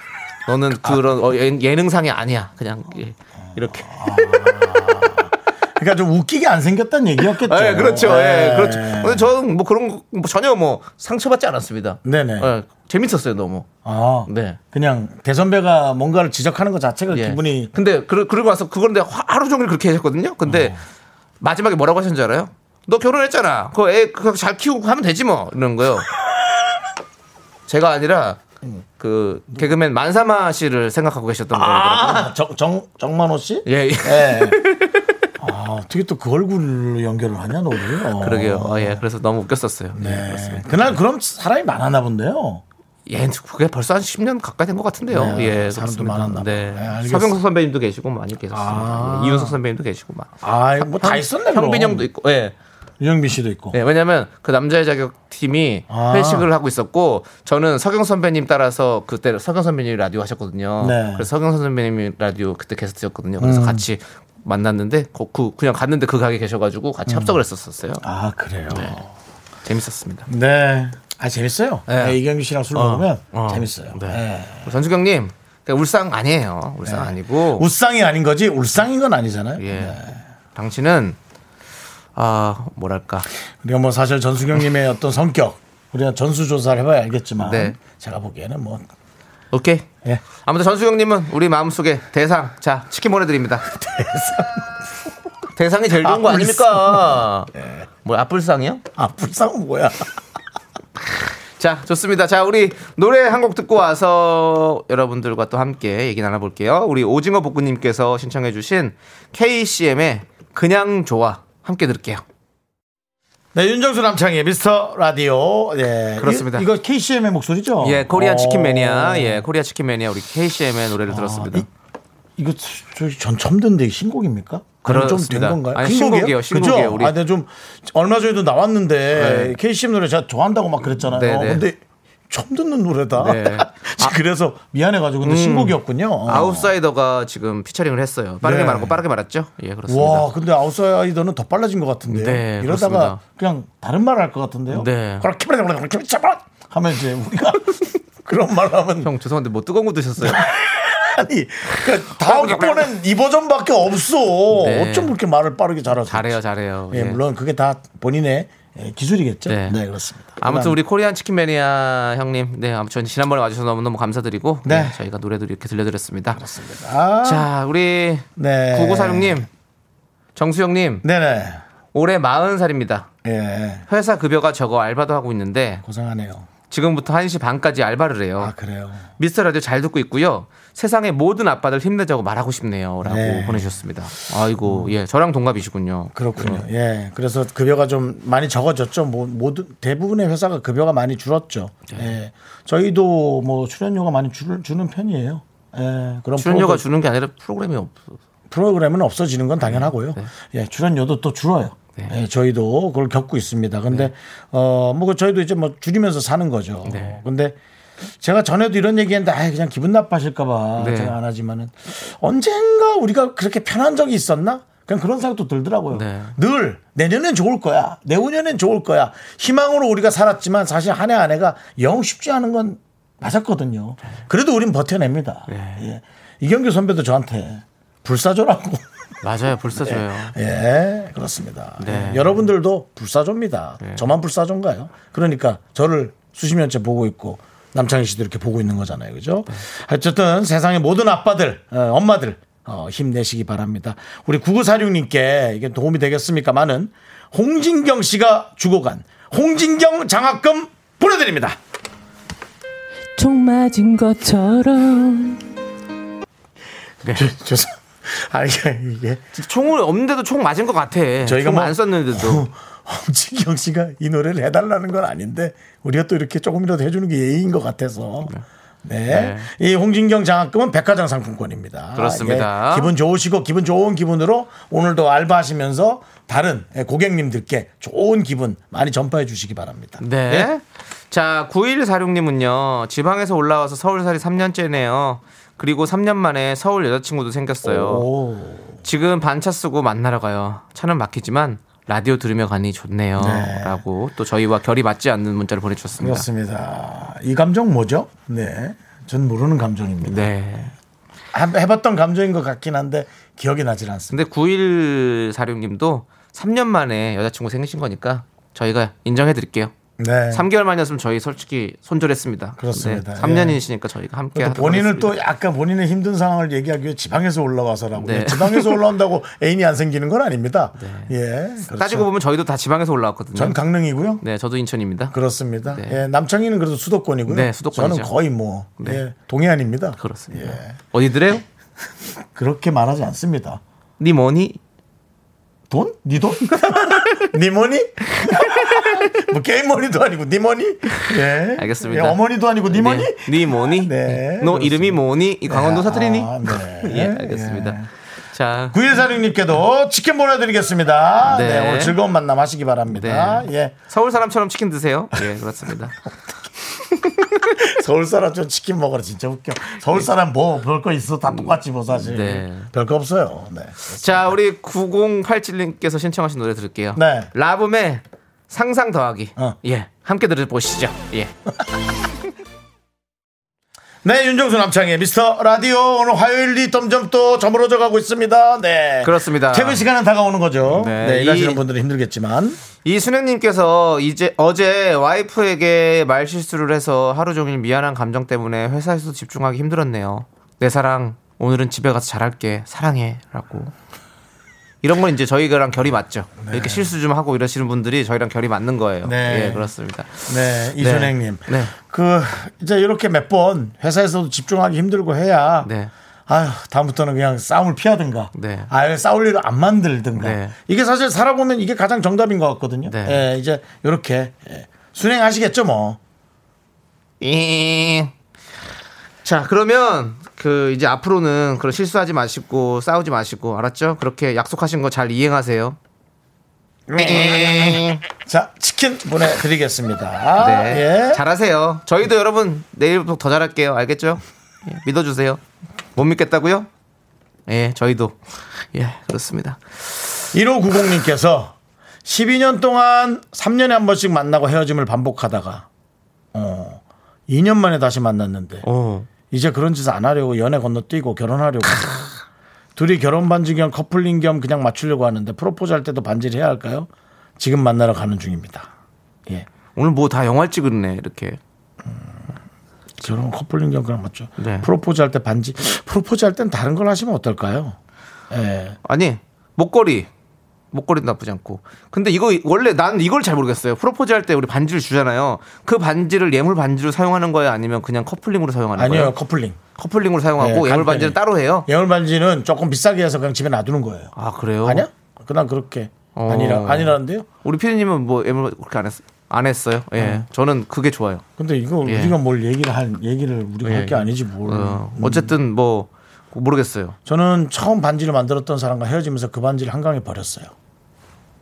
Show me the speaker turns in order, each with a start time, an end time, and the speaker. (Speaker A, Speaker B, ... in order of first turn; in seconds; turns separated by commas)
Speaker A: 0.5-4.7, Speaker B: 3.5-9.3, Speaker A: 7.3-13.7, Speaker B: 12.0-12.5, Speaker B: 13.8-17.7, Speaker A: 14.3-14.6, Speaker A: 17.1-20.8, Speaker B: 20.4-20.8, Speaker A: 21.4-26.1, Speaker A: 27.7-28.4, Speaker A: 29.0-32.3, Speaker B: 31.5-34.6, Speaker A: 33.6-35.1, Speaker B: 35.4-39.0, Speaker A: 38.2-41.0, Speaker B: 39.9-42.6, Speaker A: 43.1-52.5, Speaker B: 45.1-47.4, Speaker B: 48.5-49.6, Speaker B: 50.4-52.1, Speaker B: 53.0-53.8, Speaker A: 53.7-68.0, Speaker B: 55.9-56.5, Speaker B: 60.8-61.3, Speaker B: 63.4-63.8, Speaker B: 67.1-67.3, Speaker B: 68.0-69.1, Speaker A: 68.7-69.0, Speaker A: 69.6-70.3, Speaker B: 70.3-74.7, Speaker A: 71.9-72.2, Speaker A: 72.7-77.7, Speaker B: 76.8-80.2, Speaker A: 79.6-80.0, Speaker A: 80.5-81.2, Speaker A: 82.1-83.3, Speaker B: 83.6-88.8, Speaker A: 87.4-87.8, Speaker A: 89.5-89.9, Speaker A: 90.4-93.7, Speaker B: 93.6-94.7, Speaker A: 95.5-97.5, Speaker B: 96.0-97.8, Speaker A: 98.0-98.8, Speaker B: 99.0-100.1, Speaker A: 101.2-112.2, Speaker B: 113.5-119.4, Speaker A: 116.2-116.7, Speaker A: 117.8-121.7, Speaker B: 121.1-121.7, Speaker B: 122.4-136.7, Speaker A: 124.8-127.1, Speaker A: 129.1-129.6, Speaker A: 131.0-131.6, Speaker A: 133.2-134.2, Speaker A: 135.2-140.3, Speaker B: 138.4-139.0, Speaker B: 139.9-149.1, Speaker A: 142.1-143.2, Speaker A: 144.7-145.3, Speaker A: 149.0-150.5, Speaker B: 150.2-156.3, Speaker A: 151.7-152.9, Speaker A: 154.5-155.1, Speaker A: 156.1-157.2, Speaker B: 156.9-160.8, Speaker A: 159.5-159.8, Speaker A: 160.4-166.4, Speaker B: 164.6-165.0, Speaker B: 166.3-167.5, Speaker A: 167.2-169.5, Speaker B: 168.4-169.4, Speaker A: 170.3-171.0, Speaker B: 171.0-171.6, Speaker A: 171.9-173.1, Speaker B: 173.2-173.8, Speaker A: 173.9-175.8, Speaker B: 175.8-176.5, Speaker A: 176.7-178.5, Speaker B: 178.4-179.1, Speaker A: 179.2-186.6, Speaker B: 183.0-183.7, Speaker B: 184.6-184.9, Speaker B: 186.1-196.8, Speaker A: 196.4-198.2, Speaker B: 198.5-207.6, Speaker A: 199.6-200.3, Speaker A: 206.8-207.2, Speaker B: 208.2-228.8, Speaker A: 210.8-211.2, Speaker A: 215.9-216.3, Speaker A: 225.5-225.9, Speaker A: 229.2-230.3, Speaker B: 229.7-251.6, Speaker A: 231.8-232.4, Speaker A: 233.8-234.1, Speaker C: 253.2-255.4, Speaker B: 257.1-259.2, Speaker A: 259.3-262.4, Speaker B: 261.2-268.3, Speaker B: 268.8-280.5, Speaker A: 269.1-269.5, Speaker A: 271.9-272.9, Speaker A: 280.0-288.1, Speaker B: 287.6-288.8, Speaker A: 288.8-296.3, Speaker B: 293.2-293.8, Speaker B: 296.0-300.2, Speaker A: 300.0-300.7, Speaker B: 301.3-304.1, Speaker A: 304.1-309.7, Speaker B: 310.0-310.4, Speaker A: 310.3-315.1, Speaker B: 312.6-313.6, Speaker B: 314.3-322.1, Speaker A: 317.9-318.8, Speaker A: 320.8-321.1, Speaker A: 321.7-323.6, Speaker B: 323.3-324.2, Speaker A: 324.2-325.1, Speaker B: 325.1-330.8, Speaker A: 325.7-326.0, Speaker A: 327.3-328.1, Speaker A: 330.0-331.4, Speaker B: 332.3-333.6, Speaker A: 334.0-334.6, Speaker B: 335.7-347.9, Speaker A: 336.7-337.3, Speaker A: 338.2-339.1, Speaker A: 341.0-347.8, Speaker A: 348.3-348.8, Speaker B: 348.7-353.8, Speaker A: 351.2-352.0, Speaker A: 352.9-355.9, Speaker B: 357.3-364.3, Speaker A: 361.3-362.7, Speaker A: 364.0-371.3, Speaker B: 366.9-367.3, Speaker B: 374.0-382.6, Speaker A: 379.0-379.8, Speaker A: 380.6-381.6, Speaker A: 382.8-393.7, Speaker A: 394.8-401.7, Speaker B: 396.4-396.9, Speaker B: 399.0-399.7, Speaker B: 400.2-405.7, Speaker A: 405.6-405.9, Speaker B: 406.3-416.0, Speaker A: 408.3-408.7, Speaker A: 410.1-410.6, Speaker A: 412.9-413.2, Speaker A: 417.2-418.1, Speaker A: 419.2-425.8, Speaker B: 426.9-431.2, Speaker A: 426.9-428.0, Speaker A: 430.4-435.4, Speaker A: 435.9-436.7, Speaker A: 437.5-438.2, Speaker A: 438.7-440.1, Speaker B: 440.3-445.7, Speaker B: 446.3-448.6, Speaker A: 448.6-449.1, Speaker B: 449.3-452.1, Speaker B: 452.8-458.7, Speaker A: 459.7-461.4, Speaker B: 461.9-462.2, Speaker B: 463.0-467.8, Speaker A: 464.4-464.7, Speaker B: 468.3-468.8, Speaker A: 468.8-470.1, Speaker A: 470.7-479.1, Speaker B: 478.8-479.6, Speaker A: 479.8-481.7, Speaker B: 480.4-484.1, Speaker A: 484.1-484.9, Speaker B: 484.6-487.3, Speaker A: 486.1-491.2, Speaker B: 490.0-490.3, Speaker B: 491.4-495.3, Speaker A: 491.8-492.1, Speaker A: 493.6-497.0, Speaker B: 497.1-500.5